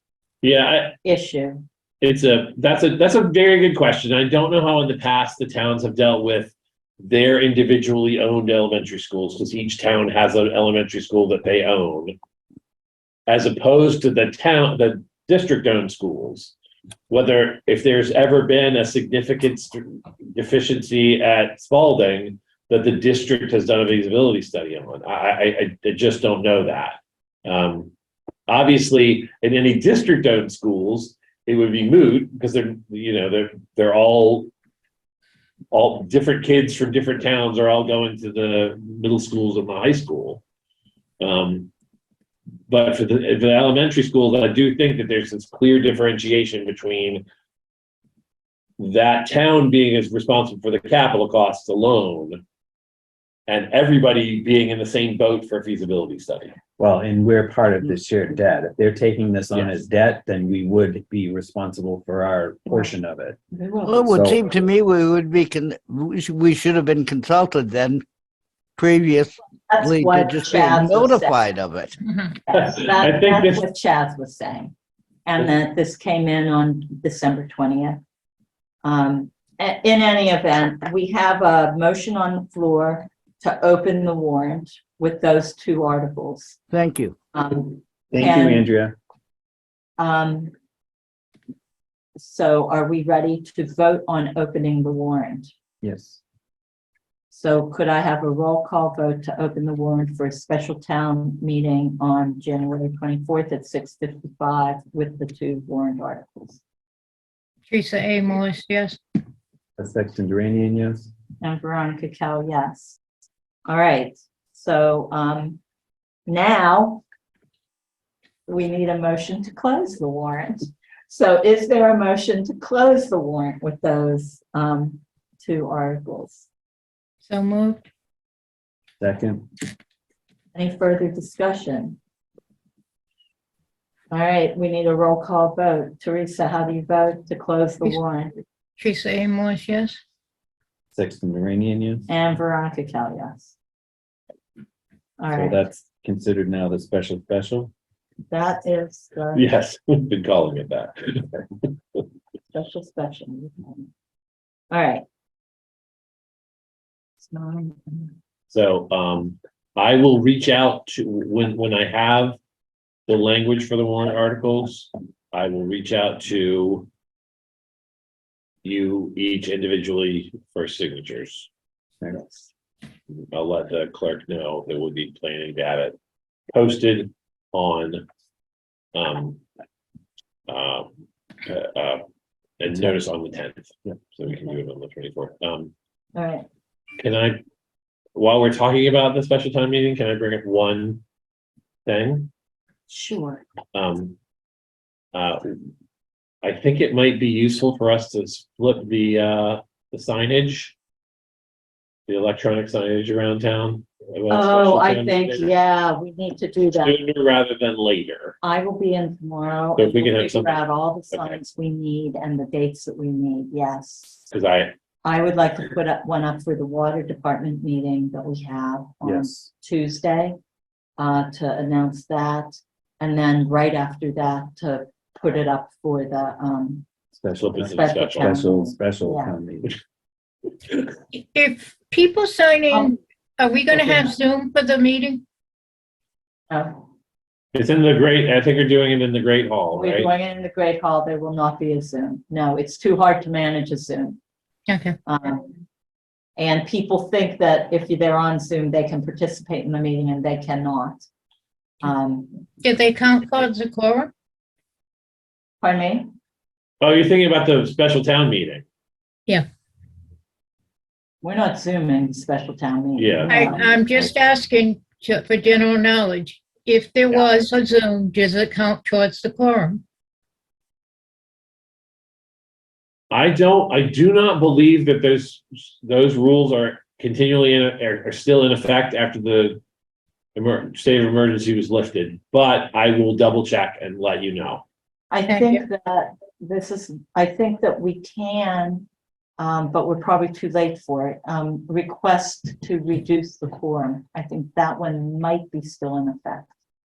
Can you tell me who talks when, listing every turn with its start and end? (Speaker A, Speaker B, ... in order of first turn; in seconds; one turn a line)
Speaker A: 0.4-1.0
Speaker B: 1.0-1.6
Speaker A: 2.0-12.2
Speaker A: 13.3-16.5
Speaker A: 17.1-27.9
Speaker A: 28.5-34.5
Speaker A: 35.7-40.4
Speaker A: 41.2-41.7
Speaker A: 42.7-47.2
Speaker A: 48.8-52.4
Speaker A: 53.5-56.5
Speaker C: 56.8-63.4
Speaker B: 63.5-64.1
Speaker D: 63.9-68.0
Speaker C: 64.1-64.5
Speaker D: 68.8-72.0
Speaker B: 69.7-71.4
Speaker E: 72.1-72.3
Speaker B: 72.5-74.7
Speaker A: 72.5-73.7
Speaker B: 75.2-78.0
Speaker B: 78.8-86.6
Speaker D: 86.7-87.1
Speaker B: 87.3-88.7
Speaker C: 88.1-89.0
Speaker B: 90.0-90.5
Speaker B: 92.2-95.5
Speaker C: 95.8-96.2
Speaker B: 97.3-106.6
Speaker E: 107.7-109.0
Speaker C: 109.8-111.1
Speaker B: 111.4-113.0
Speaker B: 113.7-115.6
Speaker B: 116.3-117.0
Speaker B: 118.5-126.5
Speaker E: 127.2-127.8
Speaker C: 129.0-129.4
Speaker B: 130.5-132.0
Speaker B: 134.1-138.3
Speaker E: 138.8-140.0
Speaker C: 140.9-142.1
Speaker B: 142.1-143.6
Speaker B: 145.2-145.6
Speaker C: 145.3-147.7
Speaker B: 148.3-149.5
Speaker A: 149.3-152.0
Speaker B: 152.5-153.9
Speaker B: 154.7-155.0
Speaker B: 157.2-158.2
Speaker A: 158.5-162.4
Speaker A: 163.1-166.9
Speaker A: 168.6-171.5
Speaker C: 172.0-172.4
Speaker A: 173.3-175.9
Speaker A: 176.5-178.0
Speaker A: 178.9-179.4
Speaker A: 180.5-180.9
Speaker A: 181.4-182.0
Speaker A: 182.6-185.7
Speaker B: 186.2-186.4
Speaker A: 187.0-187.4
Speaker A: 188.1-191.0
Speaker A: 191.8-192.3
Speaker B: 192.9-193.4
Speaker A: 193.7-194.2
Speaker A: 195.1-195.6
Speaker A: 196.4-200.7
Speaker A: 202.1-205.5
Speaker B: 204.3-207.0
Speaker A: 206.8-208.4
Speaker B: 208.4-214.3
Speaker A: 209.8-210.6
Speaker A: 211.1-211.4
Speaker A: 214.3-214.7
Speaker B: 215.0-220.4
Speaker C: 219.0-219.5
Speaker B: 221.0-226.8
Speaker C: 227.1-229.7
Speaker A: 227.4-228.4
Speaker B: 227.7-229.3
Speaker E: 231.1-235.2
Speaker B: 232.7-232.9
Speaker B: 233.7-234.1
Speaker B: 236.5-236.8
Speaker A: 237.5-240.1
Speaker B: 239.7-244.2
Speaker E: 244.7-244.9
Speaker B: 245.1-245.6
Speaker B: 246.4-251.1
Speaker B: 251.8-252.4
Speaker E: 252.6-254.1
Speaker B: 255.6-256.1
Speaker A: 256.8-258.6
Speaker B: 261.2-263.7
Speaker A: 263.0-263.8
Speaker E: 263.3-269.8
Speaker A: 273.1-279.6
Speaker A: 280.4-284.6
Speaker B: 285.1-288.9
Speaker E: 285.3-285.6
Speaker B: 289.4-296.5